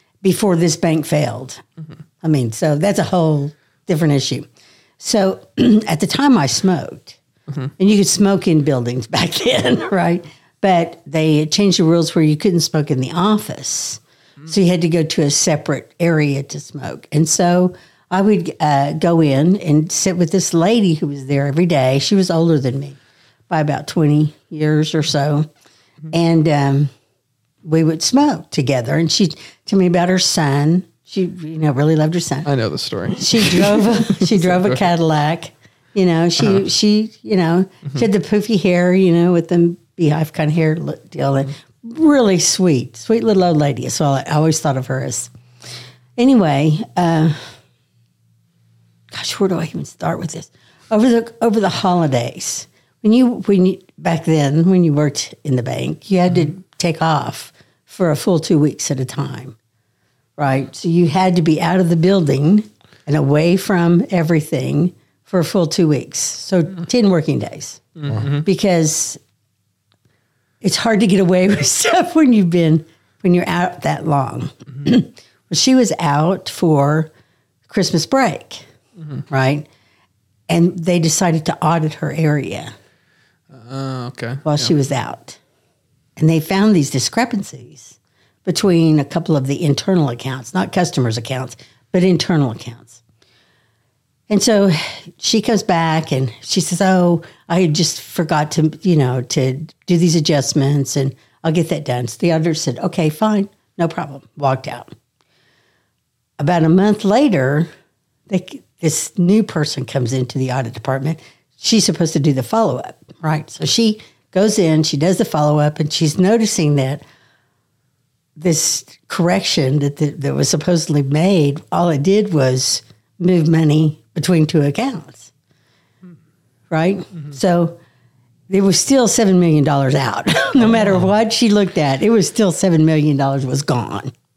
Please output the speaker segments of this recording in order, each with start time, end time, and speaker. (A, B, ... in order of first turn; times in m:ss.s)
0:00.2-0:01.6 A
0:02.2-0:04.5 A
0:05.0-0:07.2 A
0:07.8-0:23.0 A
0:23.5-0:25.5 A
0:26.1-0:26.9 A
0:27.6-0:32.5 A
0:32.4-0:34.8 B
0:33.2-0:45.3 A
0:46.2-0:47.4 A
0:49.1-0:59.6 A
1:00.4-1:07.9 A
1:08.0-1:08.4 B
1:08.4-1:09.2 A
1:10.6-1:17.1 A
1:17.7-1:18.6 A
1:19.3-1:19.6 A
1:20.5-1:22.7 A
1:23.5-1:24.7 B
1:24.4-1:25.4 A
1:26.2-1:33.0 A
1:34.3-1:44.9 A
1:46.4-1:47.7 A
1:48.3-1:57.0 A
1:58.4-2:05.3 A
2:06.7-2:07.8 A
2:08.5-2:14.1 A